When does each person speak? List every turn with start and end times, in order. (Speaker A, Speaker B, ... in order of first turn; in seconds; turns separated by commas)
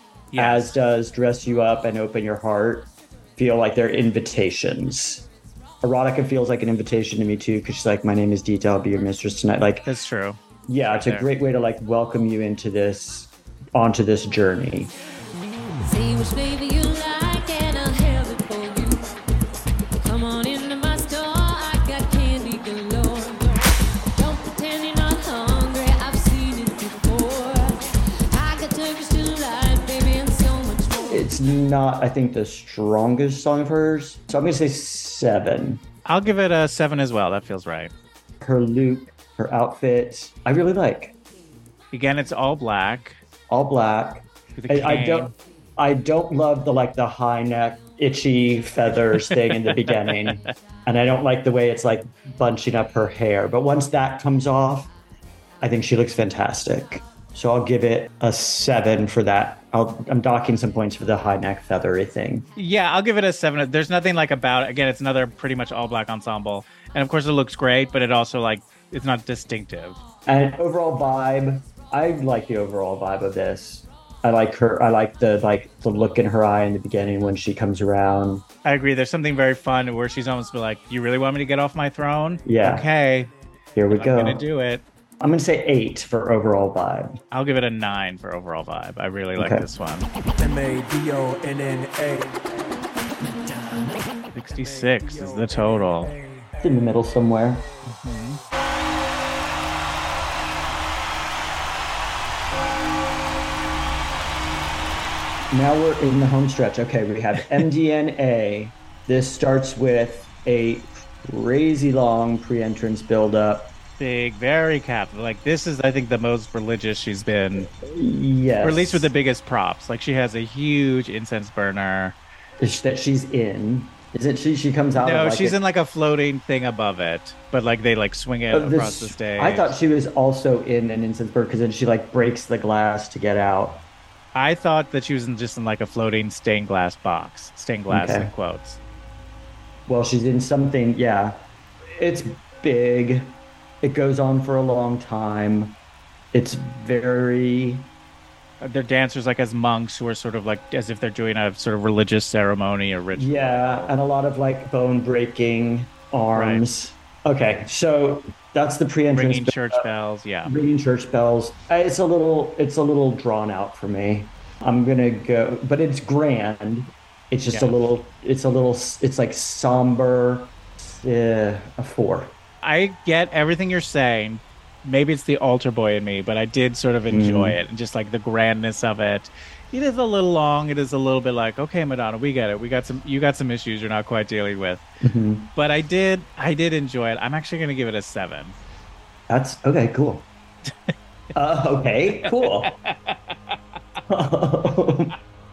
Speaker A: 0.3-0.8, Speaker B: 0.3-5.2, Speaker B: 5.8-9.9, Speaker A: 9.8-11.3, Speaker B: 10.7-14.9, Speaker C: 15.8-19.1, Speaker C: 20.0-31.3, Speaker B: 31.1-35.8, Speaker A: 36.0-37.9, Speaker B: 38.4-41.1, Speaker A: 41.9-43.2, Speaker B: 43.5-54.9, Speaker A: 44.6-45.3, Speaker B: 55.6-62.5, Speaker A: 62.5-70.0, Speaker B: 70.3-78.4, Speaker A: 78.6-83.3, Speaker B: 82.4-82.9, Speaker B: 83.8-84.4, Speaker A: 83.9-84.8, Speaker B: 85.2-87.2, Speaker A: 87.3-90.1, Speaker B: 89.4-89.7, Speaker D: 90.4-92.4, Speaker A: 94.3-96.2, Speaker B: 96.6-97.6, Speaker A: 97.8-98.4, Speaker B: 105.5-113.7, Speaker A: 114.0-117.7, Speaker B: 117.7-119.1, Speaker A: 118.6-122.2, Speaker B: 122.6-125.6, Speaker A: 125.0-129.7, Speaker B: 128.5-133.8, Speaker A: 134.3-138.8, Speaker B: 137.9-138.3, Speaker B: 139.9-145.8, Speaker B: 146.3-147.9, Speaker A: 148.6-153.9, Speaker B: 153.1-159.8, Speaker A: 156.3-156.6, Speaker A: 159.1-160.5, Speaker B: 160.4-172.3, Speaker A: 172.6-184.8, Speaker B: 177.1-177.6, Speaker B: 185.0-185.5, Speaker A: 185.5-188.6, Speaker B: 189.3-190.3, Speaker B: 191.3-192.7, Speaker A: 192.6-193.3, Speaker B: 194.1-195.1